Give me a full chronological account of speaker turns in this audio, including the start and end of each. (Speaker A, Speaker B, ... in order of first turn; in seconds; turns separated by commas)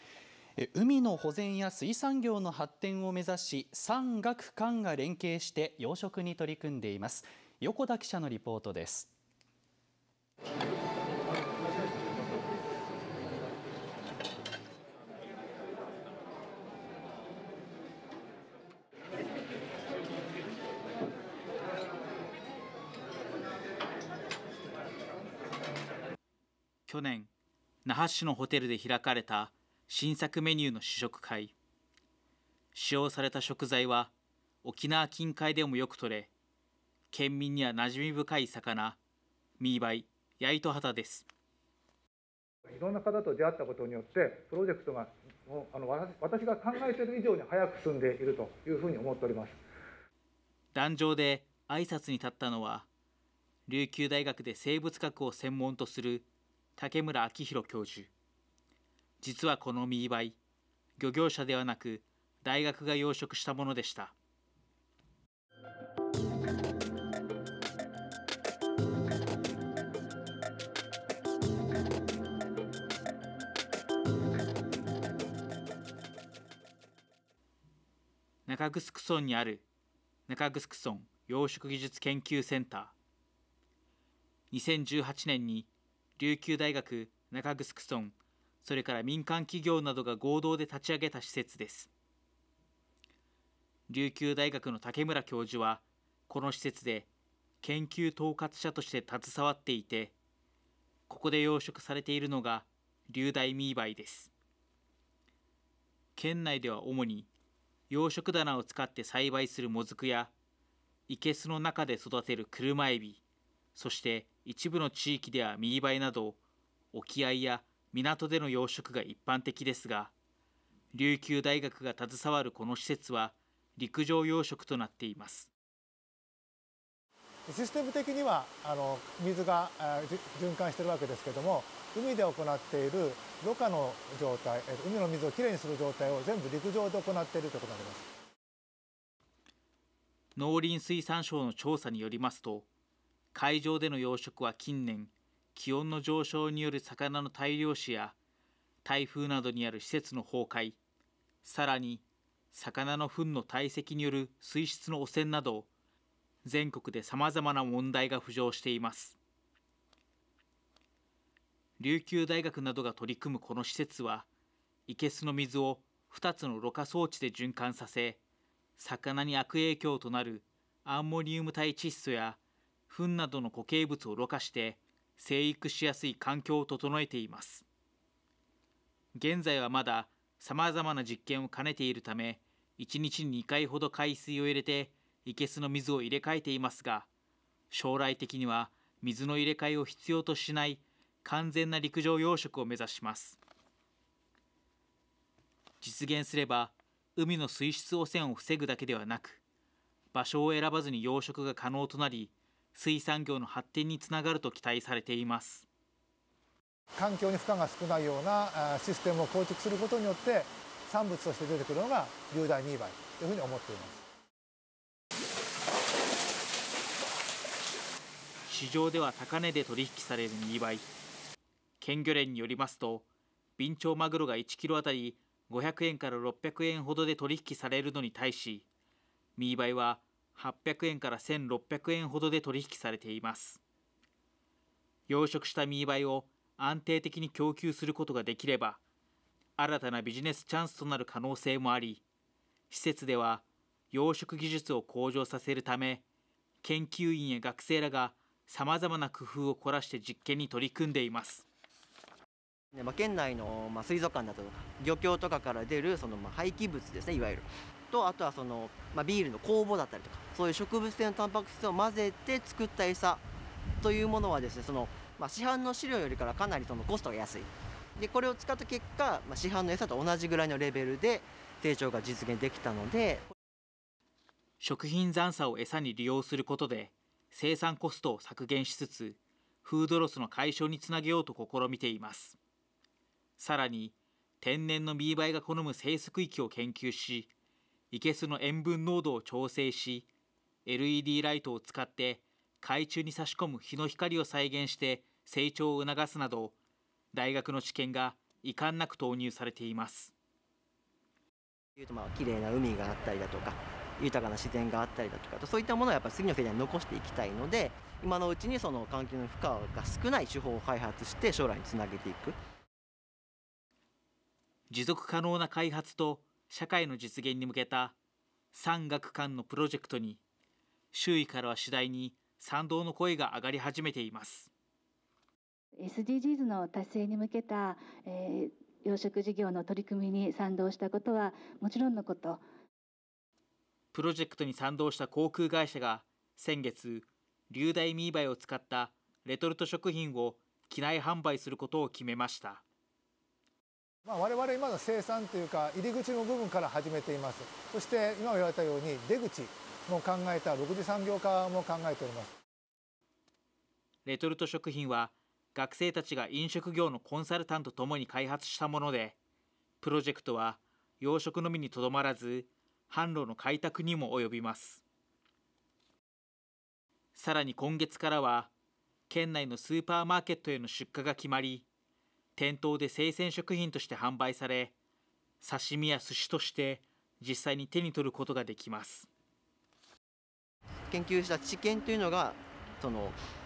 Speaker A: 0.6-9.1, Speaker B: 26.9-27.3, Speaker B: 27.8-31.5, Speaker B: 32.7-36.3, Speaker B: 37.1-39.0, Speaker B: 39.6-41.2, Speaker C: 42.7-49.6, Speaker B: 50.7-52.9, Speaker B: 53.7-58.1, Speaker B: 59.2-60.4, Speaker B: 61.0-64.1, Speaker B: 78.5-79.6, Speaker B: 80.3-82.9, Speaker B: 84.5-91.9, Speaker B: 93.9-97.1, Speaker B: 97.6-100.1, Speaker B: 101.1-104.3, Speaker B: 106.2-107.3, Speaker B: 107.9-110.3, Speaker B: 111.1-113.2, Speaker B: 113.7-116.4, Speaker B: 116.9-120.1, Speaker B: 120.9-125.5, Speaker C: 127.5-138.1, Speaker B: 140.3-142.7, Speaker B: 143.3-148.2, Speaker B: 148.8-150.8, Speaker B: 151.4-155.7, Speaker B: 156.4-159.2, Speaker B: 161.8-164.3, Speaker B: 164.9-168.2, Speaker B: 168.8-177.6, Speaker B: 179.1-187.1, Speaker B: 187.7-193.4, Speaker B: 195.8-199.4, Speaker B: 200.1-205.7, Speaker C: 207.0-214.0, Speaker B: 218.5-220.9, Speaker B: 221.8-228.7, Speaker B: 229.3-233.6, Speaker B: 235.1-238.8, Speaker B: 239.6-242.0, Speaker B: 242.7-246.0, Speaker B: 246.6-251.4, Speaker D: 252.7-263.2, Speaker D: 263.8-273.2, Speaker B: 274.6-282.4, Speaker B: 283.4-287.3, Speaker B: 287.9-290.1, Speaker B: 290.6-296.6, Speaker B: 297.1-300.1, Speaker D: 301.8-312.4, Speaker B: 314.7-317.9, Speaker B: 318.5-320.2, Speaker B: 320.9-324.5, Speaker E: 325.8-332.4, Speaker B: 333.9-342.6, Speaker C: 344.1-352.4, Speaker B: 354.0-359.2, Speaker B: 359.8-364.8, Speaker B: 367.1-368.5, Speaker B: 369.1-371.6, Speaker B: 372.4-374.7, Speaker B: 375.4-379.1, Speaker D: 380.9-383.1